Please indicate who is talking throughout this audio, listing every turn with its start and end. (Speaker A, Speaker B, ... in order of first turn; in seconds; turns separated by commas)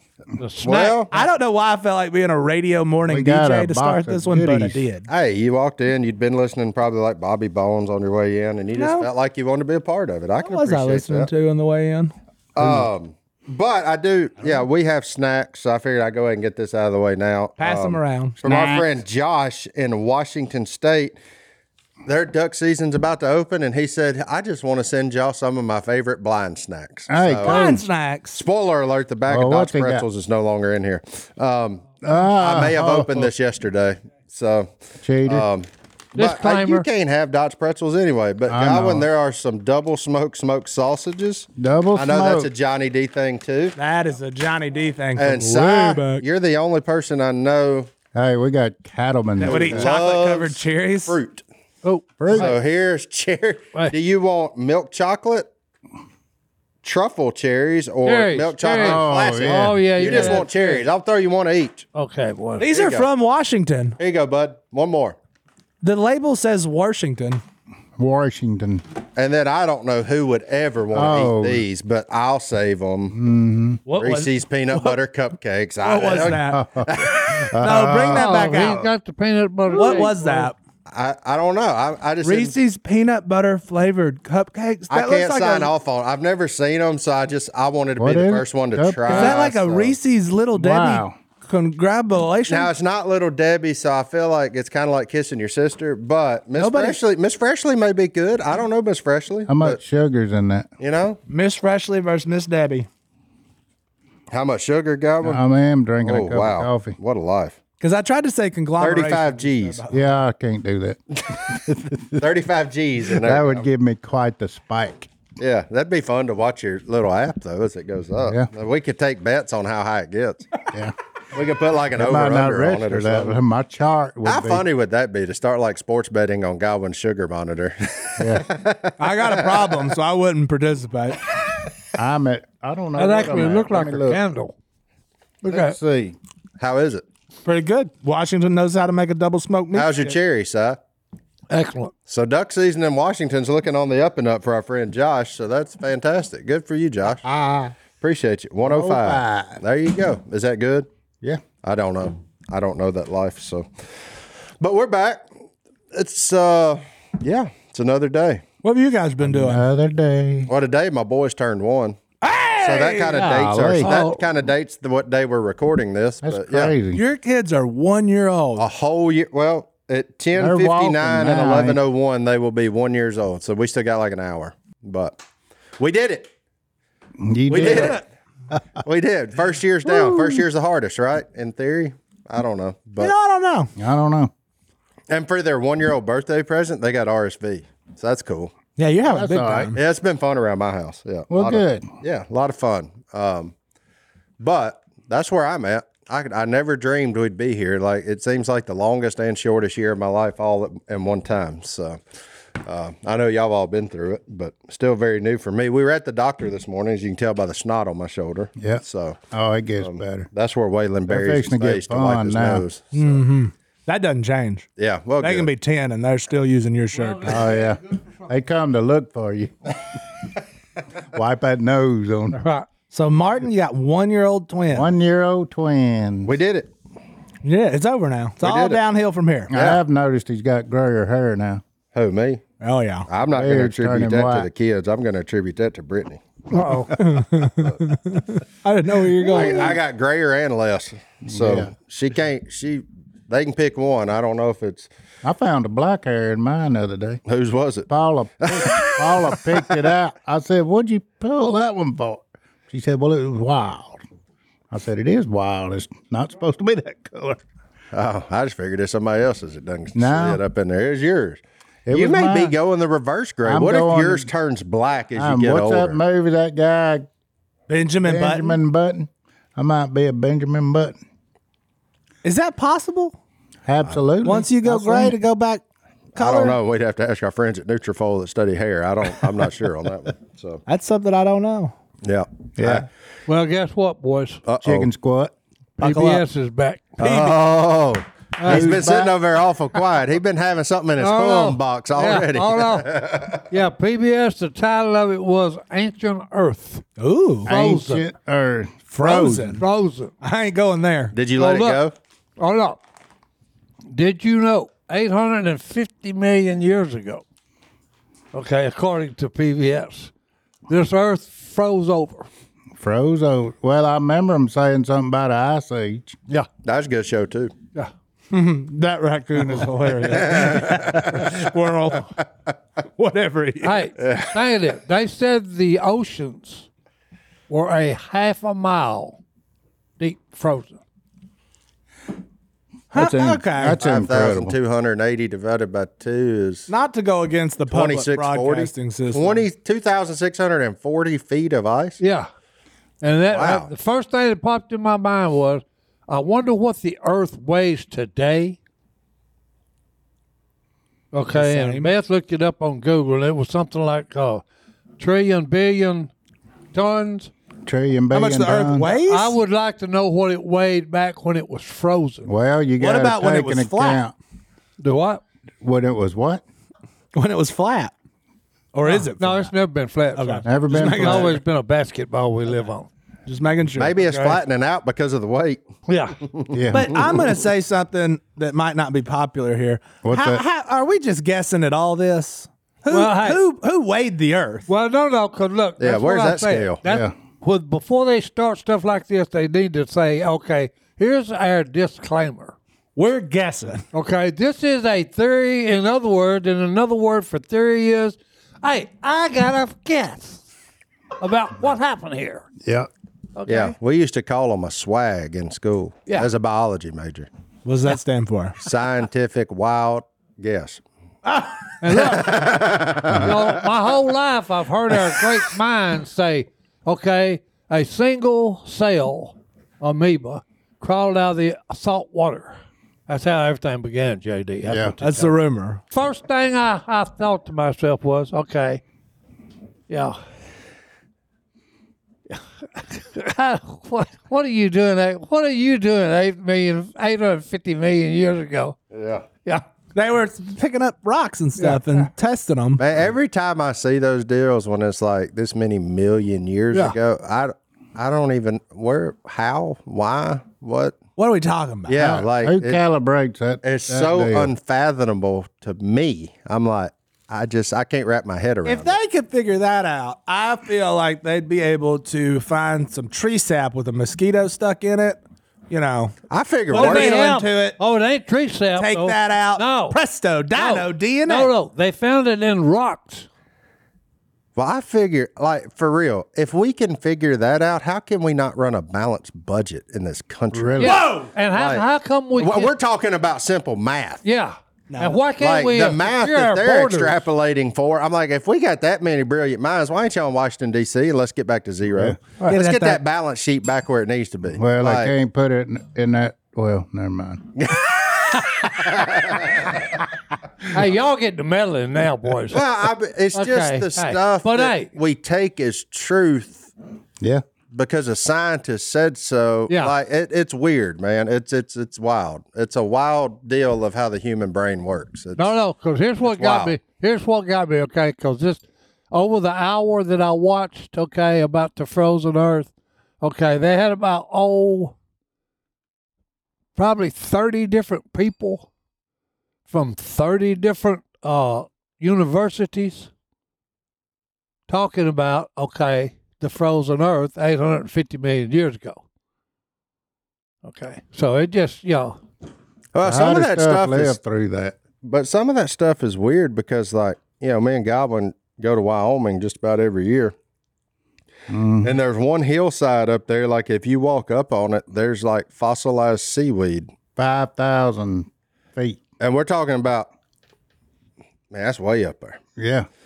Speaker A: 0.4-1.2, Speaker B: 0.6-1.1, Speaker C: 1.1-5.1, Speaker D: 3.1-4.8, Speaker B: 5.1-11.3, Speaker C: 8.7-9.1, Speaker C: 10.4-12.1, Speaker B: 12.6-21.2, Speaker D: 12.6-12.9, Speaker C: 17.6-18.4, Speaker D: 18.4-18.9, Speaker B: 22.0-27.7, Speaker D: 27.1-27.8, Speaker C: 27.4-28.4, Speaker B: 28.3-34.7, Speaker D: 29.3-30.0, Speaker D: 32.0-33.3, Speaker D: 35.0-35.4, Speaker B: 35.3-43.8, Speaker A: 36.1-36.9, Speaker D: 38.5-39.1, Speaker D: 41.6-42.5, Speaker C: 43.8-46.2, Speaker B: 45.2-47.9, Speaker D: 48.1-49.9, Speaker C: 49.4-51.2, Speaker B: 49.4-51.4, Speaker A: 51.8-52.5, Speaker D: 52.2-52.5, Speaker B: 52.3-55.5, Speaker B: 56.8-61.8, Speaker A: 58.0-60.8, Speaker D: 58.7-60.4, Speaker A: 61.9-62.7, Speaker C: 62.6-64.0, Speaker B: 62.7-63.1, Speaker B: 64.0-65.2, Speaker C: 65.8-67.4, Speaker D: 68.0-68.8, Speaker B: 69.2-73.2, Speaker D: 70.9-71.6, Speaker D: 73.1-73.8, Speaker C: 73.8-75.0, Speaker B: 74.0-77.5, Speaker C: 75.8-78.8, Speaker D: 76.5-78.9, Speaker A: 78.1-80.5, Speaker C: 79.7-80.5, Speaker B: 80.9-82.5, Speaker C: 82.2-85.7, Speaker B: 84.9-90.0, Speaker D: 88.0-89.2, Speaker C: 89.0-92.7, Speaker D: 90.5-91.1, Speaker B: 92.5-99.8, Speaker C: 96.6-97.0, Speaker D: 99.5-100.7, Speaker B: 100.8-101.2, Speaker C: 101.3-102.9, Speaker B: 104.3-105.4, Speaker D: 105.2-107.0, Speaker B: 106.0-107.6, Speaker C: 107.8-110.0, Speaker B: 108.8-109.8, Speaker D: 109.9-112.2, Speaker B: 112.1-113.6, Speaker D: 113.1-115.1, Speaker B: 115.4-120.6, Speaker D: 118.2-118.5, Speaker B: 121.3-123.4, Speaker D: 121.9-124.6, Speaker B: 124.2-129.9, Speaker D: 128.2-128.5, Speaker C: 129.0-131.2, Speaker D: 131.9-134.2, Speaker A: 133.0-134.5, Speaker A: 135.4-135.8, Speaker D: 135.5-136.2, Speaker B: 136.6-137.0, Speaker C: 137.4-140.1, Speaker B: 139.7-140.8, Speaker A: 141.5-141.9, Speaker B: 142.1-147.2, Speaker D: 147.2-147.8, Speaker B: 148.0-150.9, Speaker D: 148.6-149.6, Speaker B: 151.6-153.7, Speaker B: 154.6-155.3, Speaker B: 155.9-158.4, Speaker C: 158.6-159.6, Speaker D: 159.2-160.5, Speaker B: 160.5-162.0, Speaker C: 162.2-163.3, Speaker B: 162.6-166.7, Speaker D: 163.2-163.9, Speaker A: 163.4-164.2, Speaker D: 166.2-167.0, Speaker C: 166.9-168.7, Speaker B: 168.6-175.2, Speaker D: 170.3-171.8, Speaker B: 175.8-176.3, Speaker D: 177.2-178.0, Speaker B: 177.5-178.0, Speaker C: 177.6-177.9, Speaker B: 178.8-183.1, Speaker C: 183.0-183.7, Speaker D: 183.8-184.3, Speaker B: 185.1-188.5, Speaker C: 188.8-189.8, Speaker D: 189.1-189.8, Speaker B: 189.7-193.5, Speaker D: 191.3-191.9, Speaker B: 194.4-202.0, Speaker B: 202.6-209.2, Speaker D: 208.6-210.3, Speaker B: 209.8-213.2, Speaker D: 211.1-212.6, Speaker C: 212.9-217.5, Speaker B: 214.8-215.5, Speaker A: 216.9-218.0, Speaker D: 217.2-219.8, Speaker D: 221.1-222.4, Speaker A: 222.3-222.7, Speaker C: 222.9-224.9, Speaker D: 224.7-226.3, Speaker B: 226.2-226.7, Speaker C: 227.4-229.5, Speaker B: 228.4-228.8, Speaker D: 229.5-231.6, Speaker B: 229.5-229.8, Speaker B: 231.9-232.4, Speaker C: 232.6-233.1, Speaker B: 233.1-236.2, Speaker D: 233.3-234.5, Speaker A: 236.5-237.0, Speaker C: 236.9-239.8, Speaker B: 239.2-244.9, Speaker D: 241.3-241.7, Speaker D: 245.2-247.2, Speaker B: 247.2-247.9, Speaker D: 247.9-254.0, Speaker B: 248.4-249.4, Speaker D: 254.7-257.4, Speaker B: 257.9-266.0, Speaker D: 259.9-260.4, Speaker D: 261.9-262.5, Speaker D: 263.4-264.3, Speaker D: 265.1-267.1, Speaker C: 267.7-268.6, Speaker D: 268.0-270.9, Speaker C: 272.2-273.1, Speaker D: 273.6-275.2, Speaker C: 274.2-275.6, Speaker C: 276.1-276.6, Speaker B: 276.1-280.6, Speaker C: 280.6-281.7, Speaker B: 282.0-282.9, Speaker D: 282.6-282.9, Speaker A: 283.3-284.4, Speaker B: 284.4-284.9, Speaker D: 284.6-285.3, Speaker A: 285.8-287.0, Speaker C: 285.8-286.2, Speaker B: 287.0-293.4, Speaker C: 287.0-287.5, Speaker A: 288.4-288.8, Speaker D: 288.4-289.1, Speaker A: 291.0-292.9, Speaker A: 293.5-296.8, Speaker C: 297.0-297.5, Speaker D: 297.4-299.5, Speaker A: 297.5-298.1, Speaker C: 298.9-299.6, Speaker A: 299.0-300.1, Speaker C: 300.2-301.1, Speaker B: 301.1-301.9, Speaker A: 301.4-301.8, Speaker A: 302.4-302.8, Speaker A: 303.9-307.2, Speaker A: 308.3-310.1, Speaker A: 310.7-312.3, Speaker D: 312.8-316.1, Speaker B: 316.6-317.5, Speaker C: 318.3-322.2, Speaker B: 320.1-321.4, Speaker C: 323.0-323.9, Speaker A: 323.6-326.7, Speaker B: 324.0-324.3, Speaker A: 327.5-329.2, Speaker A: 330.0-330.8, Speaker C: 332.9-333.8, Speaker D: 332.9-334.5, Speaker B: 333.7-336.7, Speaker C: 336.7-339.4, Speaker B: 337.7-342.0, Speaker A: 342.0-342.3, Speaker A: 343.0-348.6, Speaker B: 343.3-343.7, Speaker A: 351.1-354.4, Speaker C: 351.3-351.9, Speaker A: 355.0-356.1, Speaker A: 356.7-357.3, Speaker D: 357.6-359.0, Speaker C: 358.1-359.4, Speaker A: 359.0-362.3, Speaker D: 362.2-364.1, Speaker C: 362.8-364.1, Speaker A: 364.8-365.2, Speaker D: 365.6-366.4, Speaker C: 367.1-367.9, Speaker C: 368.7-369.5, Speaker A: 368.8-372.9, Speaker C: 370.1-371.4, Speaker D: 370.4-371.4, Speaker C: 373.2-374.0, Speaker B: 373.7-375.6, Speaker A: 374.1-374.4, Speaker A: 375.9-376.2, Speaker B: 376.2-376.6, Speaker D: 376.5-377.4, Speaker C: 376.7-384.7, Speaker D: 380.0-380.4, Speaker A: 382.9-383.4, Speaker A: 384.7-392.5, Speaker B: 385.8-386.8, Speaker D: 386.8-387.1, Speaker C: 392.9-393.8, Speaker A: 393.9-400.4, Speaker A: 401.2-402.4, Speaker D: 402.6-402.9, Speaker A: 403.4-403.7, Speaker B: 403.5-407.3, Speaker C: 407.6-408.6, Speaker B: 408.6-410.8, Speaker C: 411.2-411.6, Speaker A: 411.8-412.6, Speaker B: 411.9-413.6, Speaker A: 413.1-425.3, Speaker D: 424.6-424.9, Speaker C: 425.0-425.8, Speaker A: 425.9-428.8, Speaker A: 429.9-430.2, Speaker A: 432.3-438.8, Speaker B: 438.9-439.2, Speaker C: 439.9-442.8, Speaker A: 441.6-442.1, Speaker B: 442.8-451.0, Speaker A: 446.7-447.0, Speaker C: 451.2-451.9, Speaker B: 451.9-452.8, Speaker D: 451.9-454.5, Speaker B: 453.6-458.9, Speaker C: 458.6-466.1, Speaker B: 466.3-467.2, Speaker C: 466.7-467.8, Speaker A: 466.7-470.0, Speaker C: 468.8-471.5, Speaker A: 470.5-473.3, Speaker B: 474.6-480.8, Speaker D: 480.5-481.0, Speaker A: 480.8-482.7, Speaker C: 480.8-481.3, Speaker B: 481.5-481.8, Speaker B: 482.4-484.2, Speaker A: 484.2-487.2, Speaker C: 484.9-485.2, Speaker B: 485.4-495.1, Speaker D: 491.9-492.2, Speaker C: 492.5-493.0, Speaker D: 494.6-497.5, Speaker B: 497.6-499.7, Speaker A: 500.7-502.6, Speaker B: 502.5-506.7, Speaker A: 503.3-504.9, Speaker B: 507.7-515.5, Speaker A: 515.4-522.7, Speaker B: 516.2-516.8, Speaker A: 523.2-524.9, Speaker A: 526.7-528.7, Speaker A: 529.7-533.1, Speaker A: 534.7-539.0, Speaker A: 540.6-542.2, Speaker B: 542.9-544.2, Speaker D: 543.0-544.8, Speaker B: 545.0-550.3, Speaker D: 551.5-552.0, Speaker B: 551.8-556.9, Speaker D: 557.1-559.0, Speaker B: 559.2-560.1, Speaker B: 561.5-562.4, Speaker D: 562.6-562.9